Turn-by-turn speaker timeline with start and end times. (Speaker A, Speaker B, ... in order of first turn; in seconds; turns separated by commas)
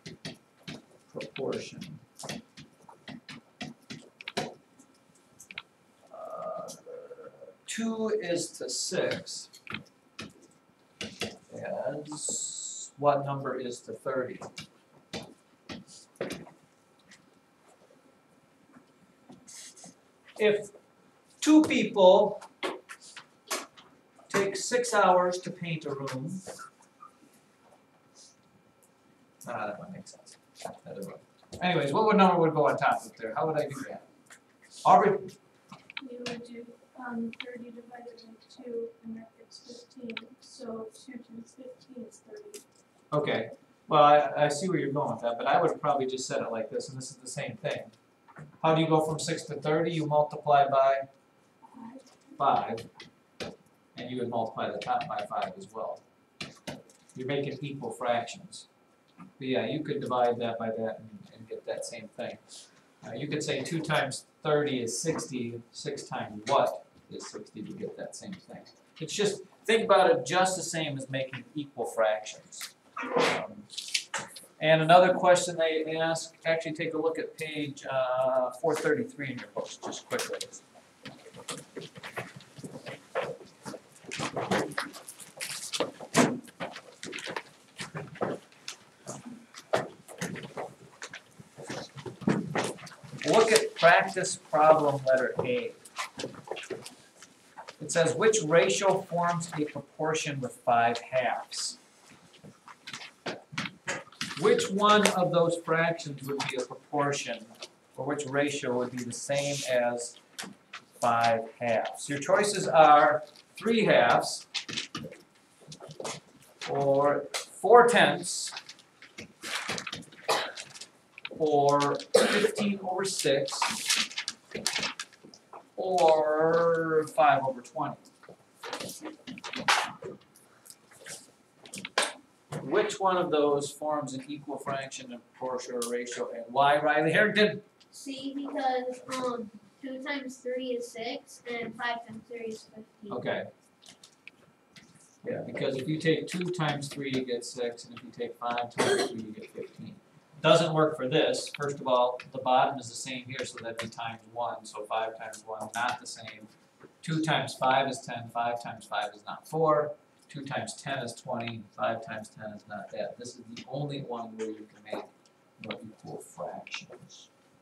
Speaker A: 1.1-2.0, Speaker A: 6.1-9.5, Speaker A: 11.5-14.5, Speaker A: 20.4-20.7, Speaker A: 21.4-22.4, Speaker A: 24.3-26.4, Speaker A: 29.4-34.1, Speaker A: 34.8-35.3, Speaker B: 36.0-42.6, Speaker A: 43.1-47.9, Speaker A: 48.6-51.1, Speaker B: 51.7-52.2, Speaker A: 52.4-52.9, Speaker A: 54.0-56.0, Speaker A: 57.1-58.7, Speaker A: 59.4-62.5, Speaker A: 63.0-73.7, Speaker A: 74.6-80.6, Speaker A: 93.2-95.8, Speaker A: 97.8-101.8, Speaker A: 104.3-110.2, Speaker A: 111.0-114.5, Speaker A: 116.7-118.6, Speaker A: 121.3-123.9, Speaker A: 125.8-128.1, Speaker A: 132.6-137.6, Speaker C: 137.9-143.2, Speaker A: 143.1-143.5, Speaker A: 145.2-156.5, Speaker A: 157.0-167.3